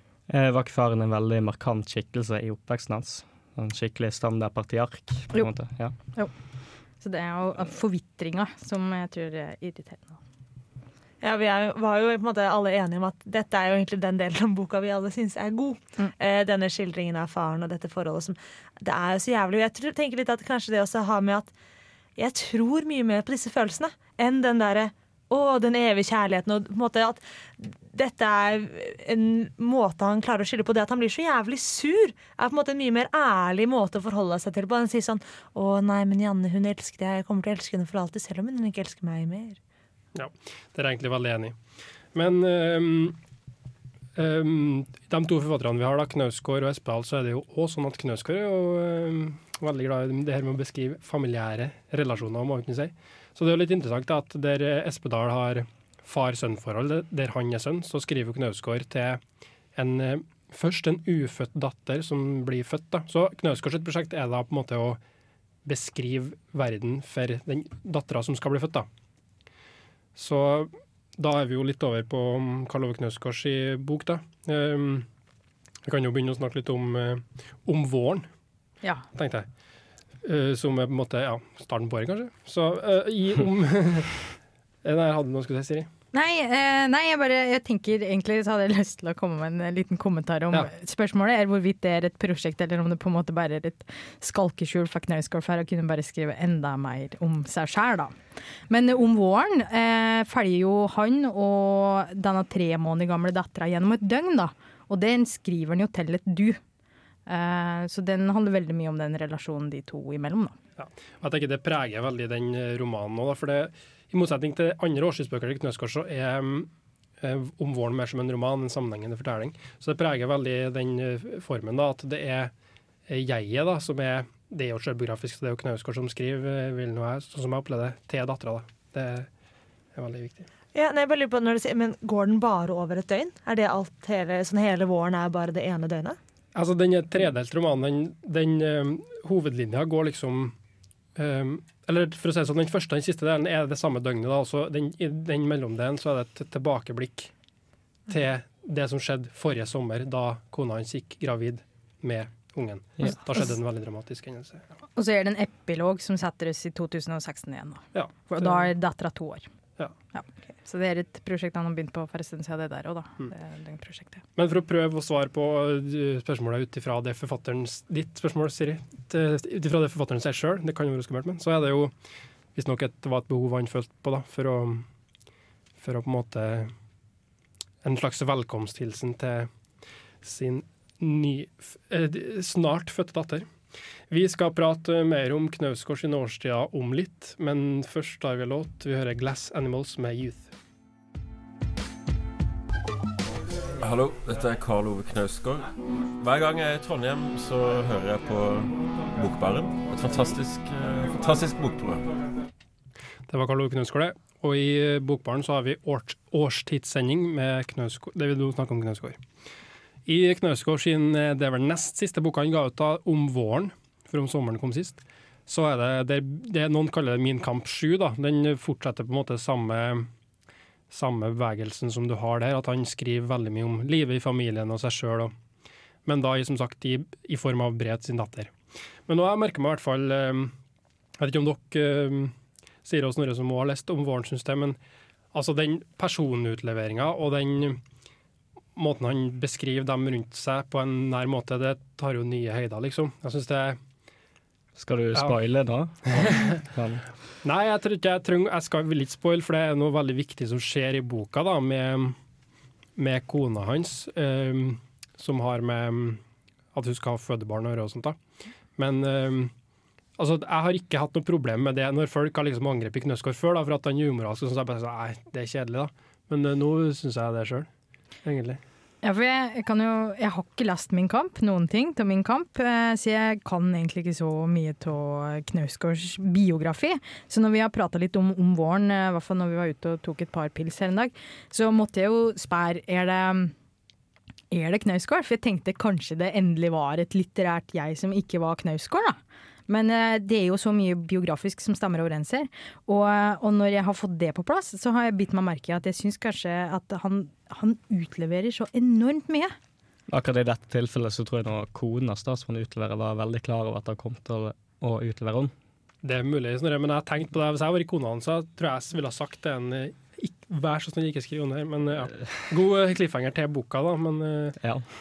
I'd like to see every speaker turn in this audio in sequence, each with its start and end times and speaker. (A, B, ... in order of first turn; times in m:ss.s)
0:00.3-0:06.0 A
0:07.0-0:10.2 B
0:11.2-0:21.5 C
0:22.2-0:39.6 C
0:40.1-0:41.6 D
0:42.1-0:43.2 D
0:44.2-0:59.2 D
0:59.8-1:05.0 D
1:05.6-1:08.9 D
1:10.2-1:15.1 D
1:15.8-1:18.3 D
1:19.1-1:19.5 D
1:20.2-1:24.2 D
1:24.8-1:25.9 D
1:26.1-1:38.1 B
1:38.7-1:46.6 B
1:47.3-1:50.6 B
1:50.8-2:02.5 D
2:03.1-2:09.3 D
2:10.0-2:10.5 D
2:10.8-2:16.2 C
2:16.5-2:20.6 D
2:21.2-2:27.3 D
2:28.1-2:34.6 D
2:35.0-2:39.5 B
2:37.9-2:38.7 D
2:40.1-2:44.2 B
2:44.4-2:51.9 D
2:52.5-2:54.9 D
2:55.8-2:56.7 D
2:57.8-2:59.5 D
3:00.2-3:03.5 D
3:04.1-3:10.5 D
3:13.8-3:22.1 E
3:23.3-3:29.2 D
3:30.0-3:40.1 D
3:40.9-3:45.3 D
3:46.0-3:48.5 D
3:49.1-3:50.5 D
3:51.2-3:54.8 D
3:55.3-3:57.8 D
3:58.8-4:03.8 D
4:04.8-4:07.1 A
4:06.2-4:06.5 D
4:07.4-4:12.2 D
4:13.0-4:16.2 D
4:16.7-4:18.2 D
4:18.8-4:19.5 D
4:20.2-4:27.7 D
4:28.2-4:28.6 D
4:29.0-4:43.5 B
4:44.5-4:59.5 B
5:00.1-5:05.5 A
5:06.0-5:14.6 D